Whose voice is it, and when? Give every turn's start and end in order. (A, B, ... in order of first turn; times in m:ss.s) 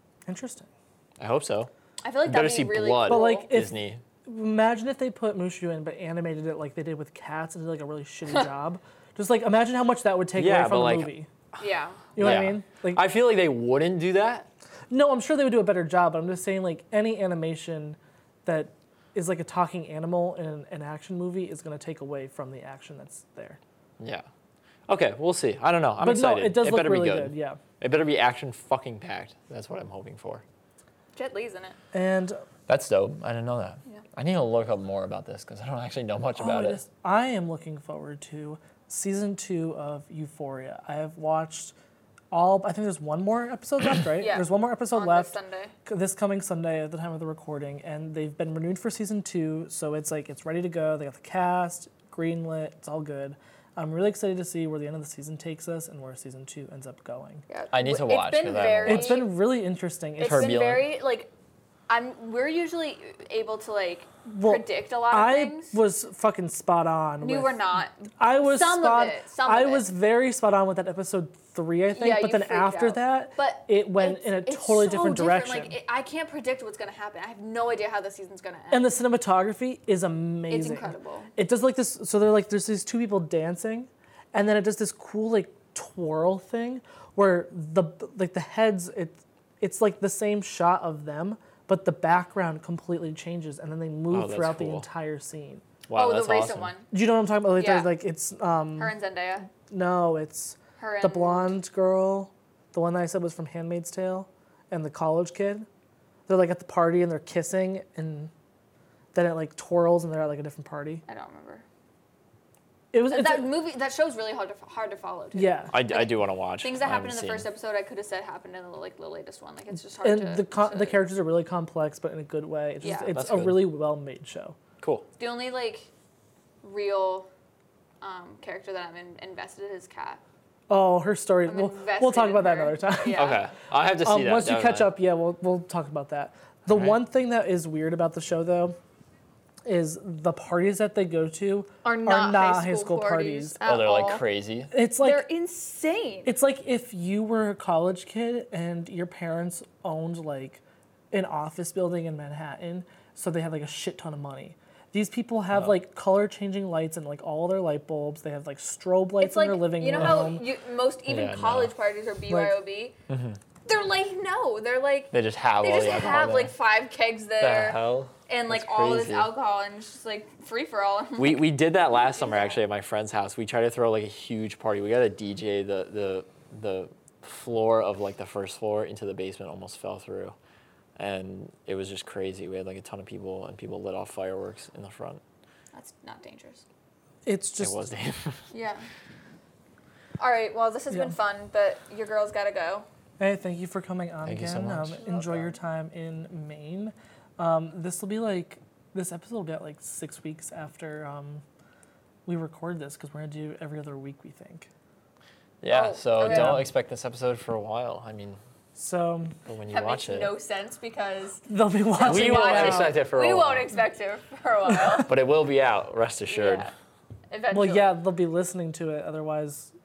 0:00.3-0:00.7 A
0:01.2-0:01.7 B
0:02.0-0:03.5 C
0:02.2-0:04.0 B
0:03.1-0:03.7 A
0:04.2-0:11.3 A
0:10.4-0:11.1 B
0:11.6-0:12.1 C
0:12.2-0:13.0 A
0:12.2-0:14.5 B
0:14.9-0:23.6 A
0:24.0-0:24.2 B
0:24.9-0:30.4 B
0:26.0-0:27.6 A
0:31.1-0:31.8 C
0:31.9-0:32.4 A
0:32.7-0:36.8 B
0:36.4-0:41.8 A
0:42.3-0:57.4 A
0:44.2-0:45.7 C
0:57.5-0:59.3 C
0:57.7-0:59.2 B
0:58.8-1:00.6 A
1:00.2-1:01.3 C
1:00.2-1:00.9 B
1:01.9-1:05.8 C
1:04.2-1:07.6 A
1:07.2-1:09.9 C
1:08.2-1:15.8 A
1:11.9-1:18.9 C
1:18.7-1:35.6 A
1:20.5-1:21.3 C
1:34.1-1:34.9 B
1:35.9-1:36.7 B
1:35.9-1:36.9 C
1:36.9-1:38.9 A
1:37.6-1:37.9 C
1:38.8-1:39.5 C
1:39.7-1:45.7 A
1:40.8-1:41.6 C
1:46.3-1:48.3 A
1:49.1-1:51.0 A
1:51.1-1:51.6 C
1:52.9-1:53.5 A
1:53.1-2:01.0 C
1:55.4-1:55.7 A
1:55.7-1:57.5 B
2:00.0-2:04.6 A
2:02.8-2:03.2 C
2:03.1-2:03.7 B
2:04.8-2:05.1 B
2:05.2-2:05.9 C
2:06.6-2:07.3 C
2:08.0-2:10.2 C
2:10.7-2:13.4 A
2:11.5-2:13.4 C
2:13.2-2:14.9 B
2:14.0-2:18.8 A
2:16.7-2:17.0 B
2:19.6-2:23.6 A
2:21.8-2:24.2 C
2:23.6-2:24.7 B
2:24.7-2:25.2 A
2:25.0-2:26.3 C
2:26.2-2:40.4 A
2:39.2-2:43.0 C
2:41.1-2:41.7 B
2:42.3-2:42.6 A
2:43.1-2:43.4 B
2:43.6-2:52.6 C
2:45.1-2:46.6 B
2:47.4-2:49.3 B
2:51.2-3:00.4 B
3:01.0-3:05.2 B
3:05.7-3:06.6 C
3:07.2-3:07.8 A
3:07.6-3:08.4 B
3:08.5-3:08.9 C
3:10.2-3:12.9 C
3:13.2-3:21.4 A
3:14.2-3:15.5 B
3:22.2-3:24.7 A
3:25.6-3:28.4 B
3:25.7-3:26.6 C
3:26.2-3:26.6 A
3:28.8-3:29.4 A
3:29.5-3:30.3 B
3:29.7-3:35.1 C
3:31.5-3:32.9 A
3:32.0-3:33.7 B
3:35.1-3:36.7 B
3:36.3-3:36.7 C
3:37.3-3:38.0 C
3:37.5-3:39.7 A